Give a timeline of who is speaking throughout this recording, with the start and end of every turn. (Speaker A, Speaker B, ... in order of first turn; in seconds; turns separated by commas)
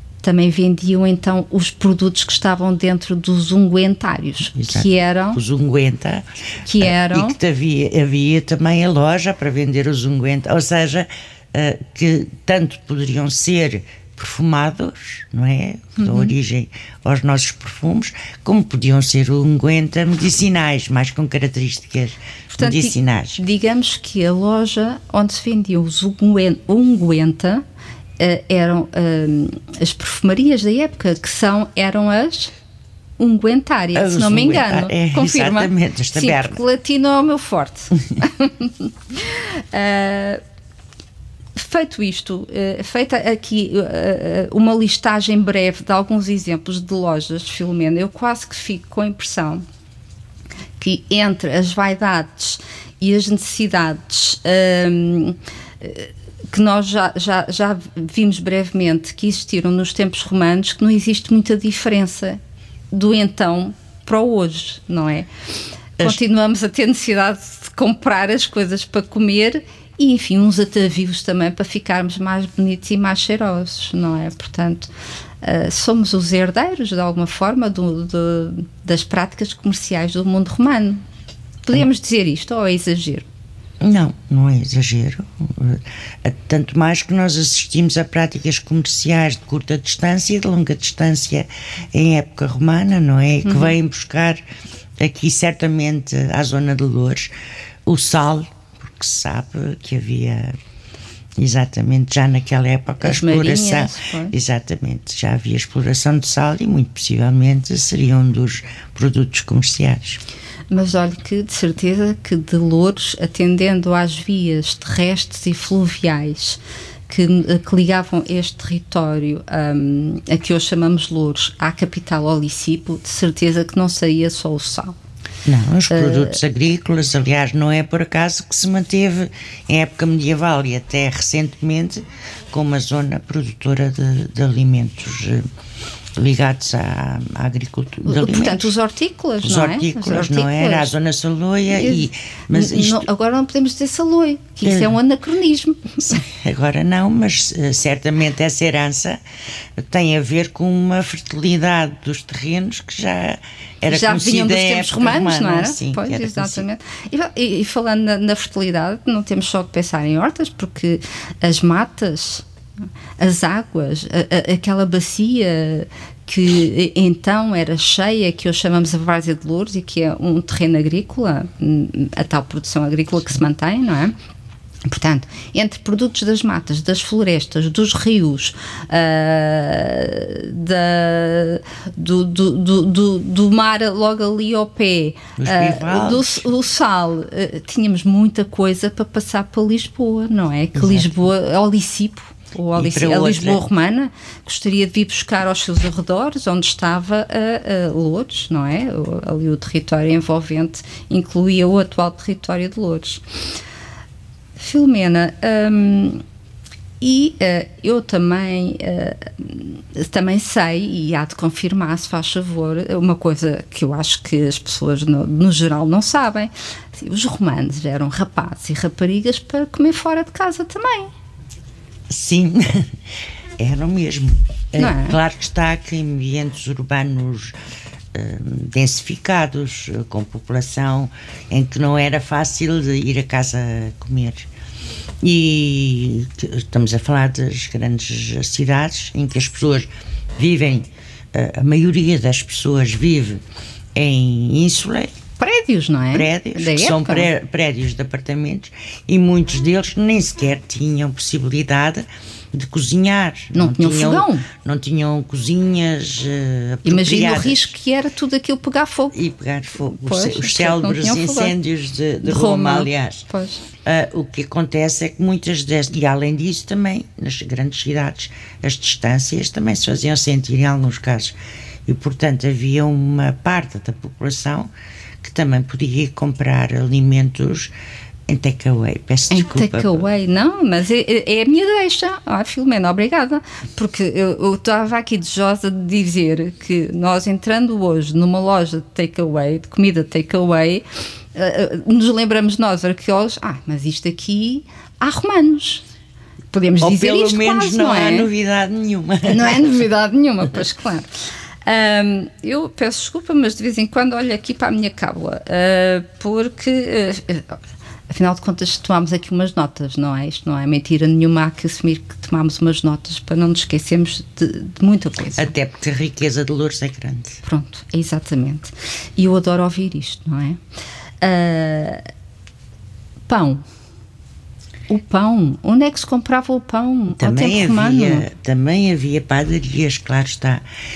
Speaker A: 0.2-5.4, Speaker B: 4.5-23.4, Speaker A: 6.6-7.4, Speaker A: 16.0-16.3, Speaker A: 22.5-27.6, Speaker A: 28.2-32.5, Speaker A: 33.2-40.4, Speaker B: 33.9-36.6, Speaker A: 41.6-49.6, Speaker A: 50.8-62.4, Speaker A: 62.9-65.3, Speaker A: 66.0-74.9, Speaker A: 75.4-81.0, Speaker A: 81.6-83.2, Speaker B: 83.8-94.4, Speaker A: 93.4-93.8, Speaker B: 95.0-97.3, Speaker B: 97.8-100.6, Speaker B: 101.4-110.2, Speaker A: 103.0-104.3, Speaker A: 110.7-125.0, Speaker B: 125.5-135.4, Speaker A: 125.9-126.4, Speaker B: 136.2-138.7, Speaker A: 138.1-140.9, Speaker B: 139.4-143.1, Speaker A: 141.7-146.2, Speaker B: 144.6-144.9, Speaker B: 146.0-149.2, Speaker B: 149.8-156.6, Speaker A: 153.8-162.4, Speaker A: 163.2-174.1, Speaker A: 174.9-203.2, Speaker B: 185.4-186.5, Speaker B: 190.8-191.2, Speaker B: 192.7-193.6, Speaker A: 204.6-206.2, Speaker A: 207.0-221.1, Speaker B: 222.1-222.9, Speaker B: 223.6-227.6, Speaker A: 224.8-225.2, Speaker B: 228.1-234.5, Speaker B: 235.2-243.4, Speaker B: 243.9-245.1, Speaker A: 245.4-247.3, Speaker B: 246.1-257.7, Speaker A: 253.5-254.5, Speaker A: 256.8-259.2, Speaker B: 259.1-263.2, Speaker A: 259.8-261.6, Speaker A: 262.2-263.6, Speaker B: 263.8-274.7, Speaker B: 275.2-277.7, Speaker B: 278.3-280.1, Speaker A: 279.3-295.8, Speaker A: 296.5-298.3, Speaker B: 296.8-299.7, Speaker A: 299.2-301.1, Speaker A: 301.6-307.6, Speaker A: 308.1-315.5, Speaker B: 315.4-317.4, Speaker A: 317.4-320.6, Speaker A: 321.2-322.0, Speaker A: 323.3-323.6, Speaker A: 324.9-328.3, Speaker B: 327.2-330.6